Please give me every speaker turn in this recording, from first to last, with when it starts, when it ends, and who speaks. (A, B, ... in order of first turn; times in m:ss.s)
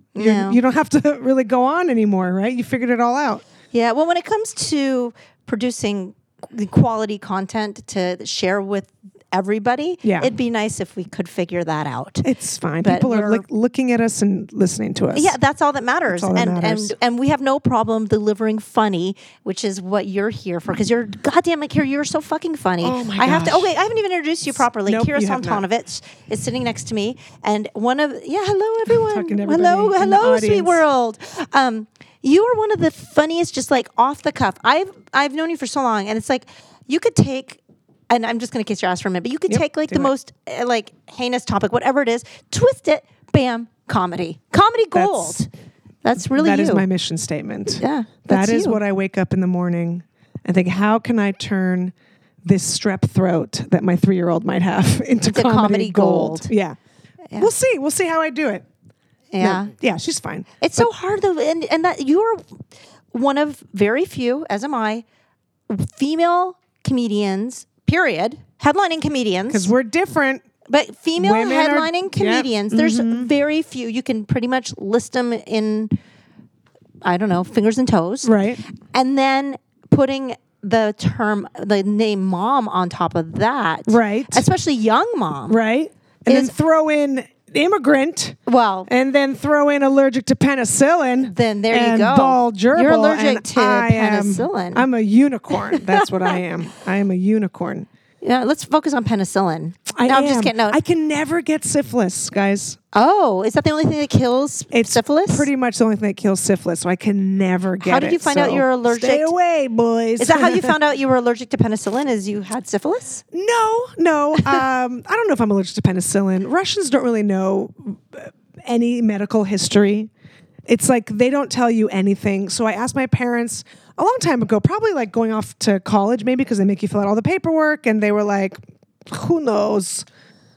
0:00.2-0:00.6 A
0:00.2-0:03.4 B
0:03.7-0:12.3 A
0:10.0-0:10.3 B
0:12.2-0:15.4 B
0:12.8-0:13.4 A
0:15.1-0:45.5 A
0:16.1-0:17.0 B
0:22.8-0:23.7 B
0:24.8-0:25.6 B
0:28.9-0:30.8 B
0:39.5-0:40.1 B
0:44.9-0:45.4 B
0:46.0-0:46.9 A
0:46.2-0:56.8 B
0:47.7-0:48.8 A
0:55.3-0:56.5 A
0:57.4-0:58.6 B
0:59.3-0:59.7 A
0:59.4-1:00.9 B
1:00.6-1:05.0 A
1:05.7-1:09.7 A
1:09.5-1:10.4 B
1:10.7-1:16.0 A
1:11.2-1:13.3 B
1:17.0-1:25.6 A
1:18.2-1:18.6 B
1:23.9-1:24.4 B
1:25.5-1:37.9 B
1:26.3-1:26.5 A
1:28.5-1:28.9 A
1:31.2-1:34.8 A
1:35.6-1:36.0 A
1:38.2-1:40.8 A
1:40.0-1:42.8 B
1:42.9-1:45.5 A
1:44.7-1:50.8 B
1:47.8-1:49.3 A
1:50.2-1:53.2 A
1:53.3-2:00.1 B
2:00.7-2:10.1 B